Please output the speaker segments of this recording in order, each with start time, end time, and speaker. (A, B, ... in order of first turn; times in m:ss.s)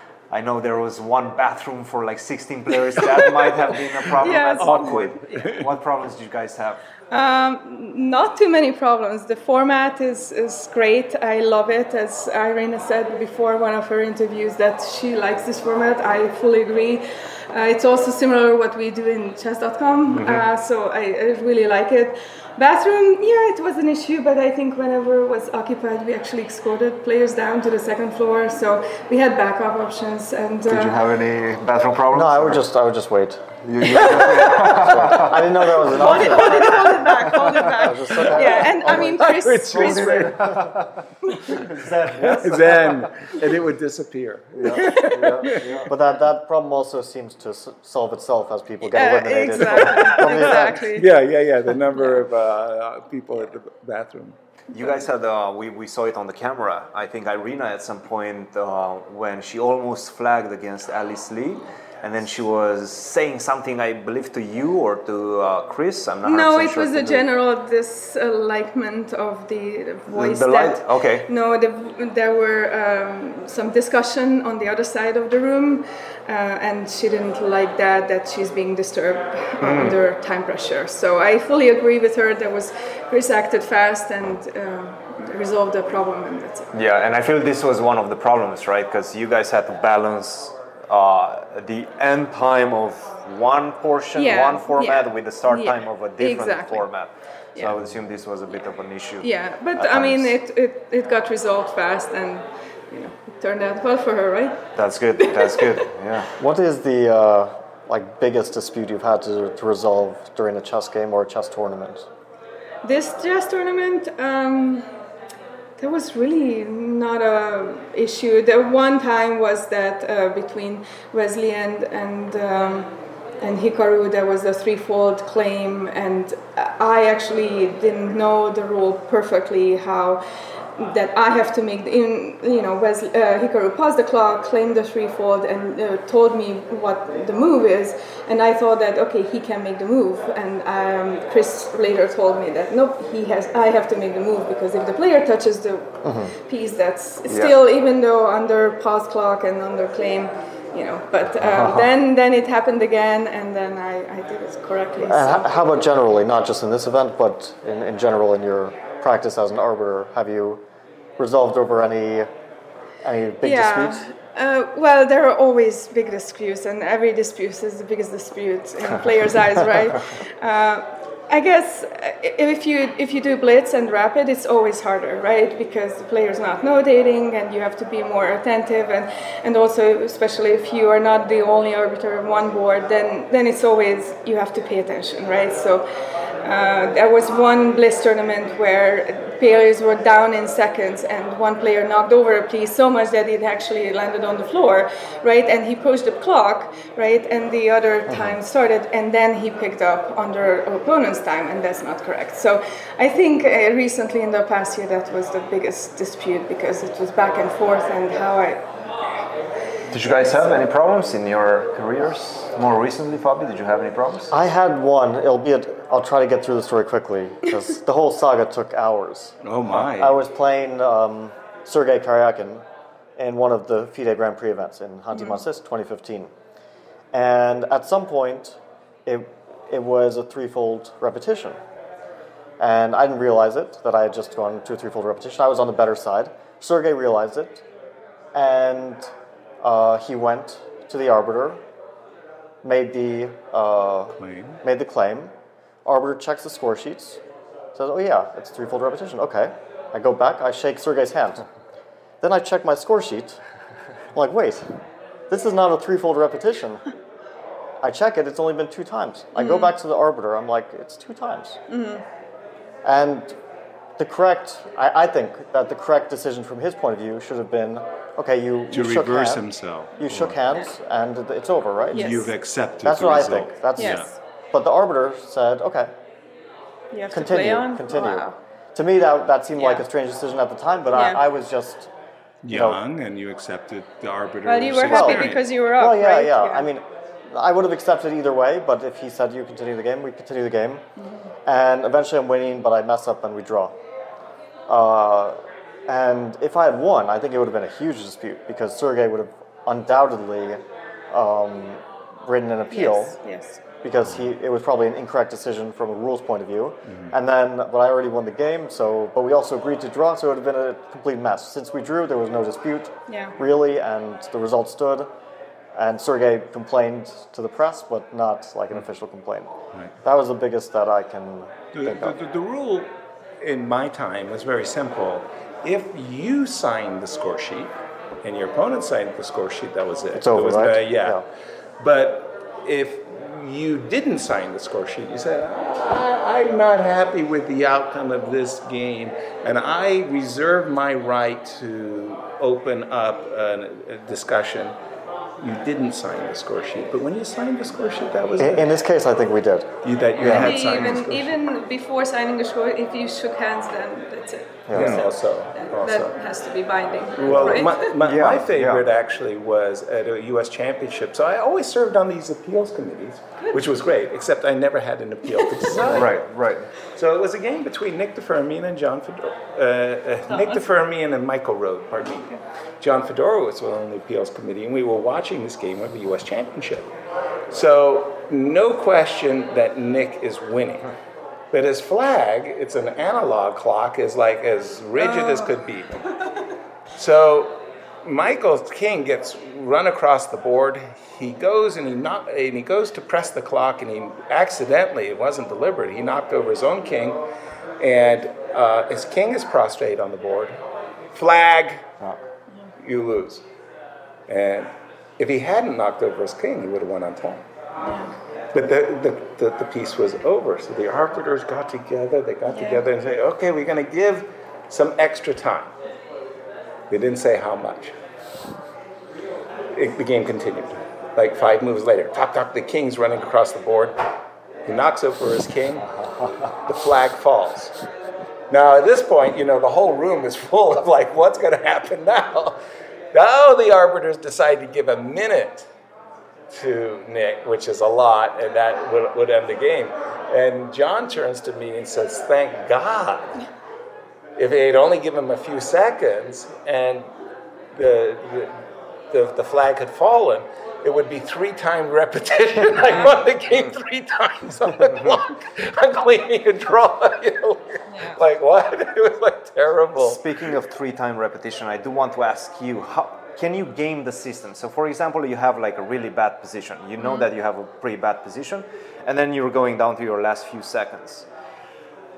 0:00.3-0:06.8 A
0:04.2-0:05.0 B
0:04.4-0:05.7 C
0:07.1-0:31.0 B
0:20.1-0:20.4 A
0:30.6-0:32.6 A
0:32.1-0:34.1 D
0:33.6-0:39.1 A
0:33.9-0:34.6 B
0:34.7-0:36.8 D
0:35.9-0:40.4 B
0:37.8-0:39.0 D
0:38.8-0:40.4 C
0:39.7-0:43.5 A
0:41.3-0:41.6 C
0:42.2-0:45.9 C
0:44.6-0:45.9 A
0:44.9-0:45.3 B
0:45.2-0:50.9 D
0:48.9-0:51.3 B
0:49.5-0:54.4 C
0:54.7-1:07.2 A
1:06.2-1:26.7 B
1:10.1-1:11.3 A
1:19.6-1:20.0 A
1:26.7-1:40.4 A
1:34.2-1:36.9 B
1:39.2-1:44.7 B
1:44.8-1:46.3 A
1:45.2-1:45.9 B
1:46.4-1:52.1 D
1:52.8-1:54.9 B
1:55.8-2:02.9 B
2:03.4-2:10.2 B
2:10.8-2:35.5 B
2:26.0-2:26.3 D
2:27.3-2:27.6 A
2:31.4-2:31.9 A
2:35.0-2:40.6 D
2:41.2-2:42.3 D
2:43.0-2:44.1 D
2:43.4-3:05.8 B
3:06.4-3:28.7 B
3:29.9-3:34.3 A
3:34.3-3:42.6 D
3:39.4-3:40.2 C
3:43.2-3:46.3 D
3:45.2-3:45.4 B
3:47.1-3:51.6 D
3:52.6-3:57.6 D
3:58.3-3:59.1 D
3:59.6-4:01.6 D
4:02.6-4:05.3 D
4:04.2-4:04.6 C
4:05.8-4:07.2 D
4:07.7-4:11.4 D
4:12.2-4:13.4 D
4:14.1-4:16.9 D
4:17.8-4:21.6 D
4:19.4-4:19.8 B
4:21.7-4:22.0 B
4:22.8-4:23.4 D
4:24.0-4:29.5 D
4:28.7-4:30.4 C
4:30.0-4:32.3 D
4:31.9-4:32.3 B
4:32.0-4:34.1 C
4:32.8-4:35.9 D
4:33.8-4:34.1 B
4:36.9-4:38.4 B
4:37.1-4:41.9 D
4:39.6-4:39.8 B
4:40.9-4:41.2 B
4:42.4-4:45.5 C
4:42.5-4:42.8 D
4:44.4-4:46.7 B
4:44.9-4:50.8 D
4:51.0-4:51.3 B
4:51.4-4:53.8 D
4:54.7-5:03.2 D
5:02.7-5:03.6 B
5:03.8-5:15.1 D
5:06.9-5:07.1 C
5:13.1-5:13.4 B
5:15.8-5:22.2 D
5:21.7-5:22.9 C
5:23.4-5:31.2 C
5:30.2-5:31.2 D
5:31.8-5:44.8 C
5:45.4-5:48.7 C
5:48.4-5:49.7 D
5:49.8-5:51.4 C
5:50.2-5:51.0 A
5:50.2-5:54.7 B
5:54.7-5:55.1 D
5:54.7-5:56.1 C
5:54.8-5:55.1 A
5:55.5-5:58.0 B
5:57.2-6:06.2 C
5:57.3-5:58.9 A
6:03.4-6:03.6 B
6:05.3-6:06.0 B
6:05.8-6:06.7 A
6:07.0-6:16.9 C
6:10.3-6:10.7 B
6:17.5-6:20.9 C
6:21.5-6:26.0 C
6:25.0-6:25.5 B
6:27.0-6:37.2 C
6:37.8-6:40.6 C
6:41.1-6:41.9 C
6:42.8-6:43.4 C
6:44.3-6:47.4 C
6:47.8-6:48.1 B
6:48.5-6:55.7 C
6:52.5-6:52.8 B
6:56.9-6:57.9 C
6:59.7-7:04.1 C
7:04.7-7:05.9 C
7:06.6-7:07.8 C
7:08.5-7:12.6 C
7:13.1-7:15.7 C
7:16.5-7:23.4 C
7:24.4-7:27.1 C
7:27.7-7:40.2 C
7:37.9-7:38.2 B
7:40.0-7:51.3 A
7:47.0-7:47.3 B